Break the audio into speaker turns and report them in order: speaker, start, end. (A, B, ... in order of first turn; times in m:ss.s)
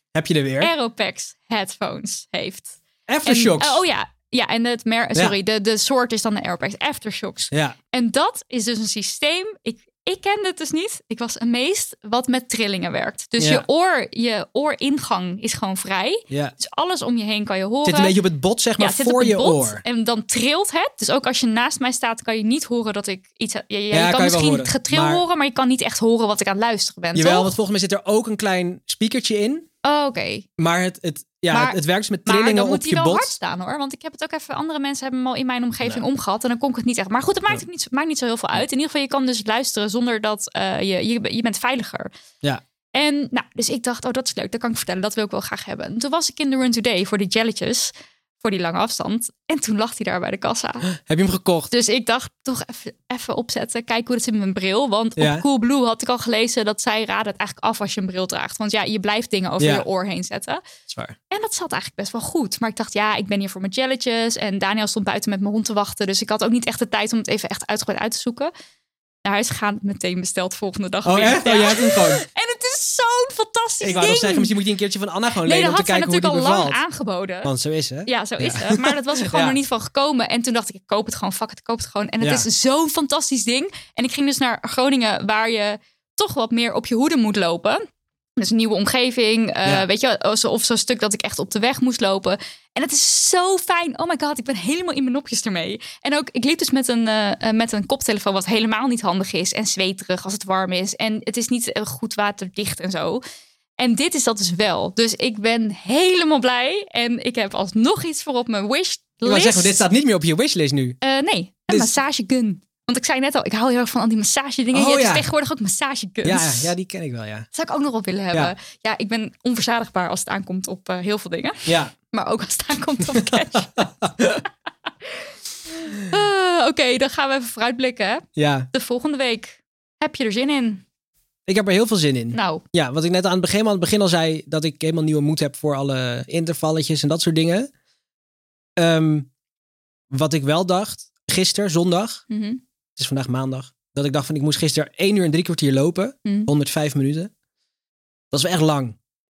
0:00.1-0:00.7 A
0:00.6-0:18.2 B
0:03.1-0:03.8 A
0:07.5-0:07.8 A
0:13.4-0:13.6 A
0:17.8-0:19.8 A
0:18.8-0:27.5 B
0:23.9-0:25.2 A
0:27.2-0:29.7 A
0:29.8-0:30.5 B
0:30.6-0:33.4 A
0:31.5-0:42.1 B
0:43.0-0:50.9 B
0:50.9-0:51.7 A
0:51.7-1:00.6 B
0:55.2-0:55.4 A
0:59.6-0:59.8 A
1:00.9-1:01.2 A
1:01.3-1:08.5 B
1:09.2-1:14.5 B
1:11.1-1:12.2 A
1:13.8-1:16.8 A
1:15.4-1:17.5 B
1:17.4-1:19.6 A
1:18.1-1:27.8 B
1:22.2-1:22.5 A
1:28.4-1:43.2 B
1:43.8-1:49.8 B
1:49.2-1:51.0 A
1:51.0-1:56.7 B
1:54.7-1:55.3 A
1:56.2-1:57.5 A
1:57.5-2:03.9 B
2:01.7-2:01.9 A
2:03.2-2:04.4 A
2:05.8-2:10.8 B
2:08.4-2:08.7 A
2:11.5-2:17.7 A
2:12.3-2:12.6 B
2:18.8-2:19.3 A
2:20.1-2:22.2 A
2:22.3-2:22.6 B
2:23.0-2:27.3 A
2:26.2-2:26.5 B
2:28.3-2:29.0 A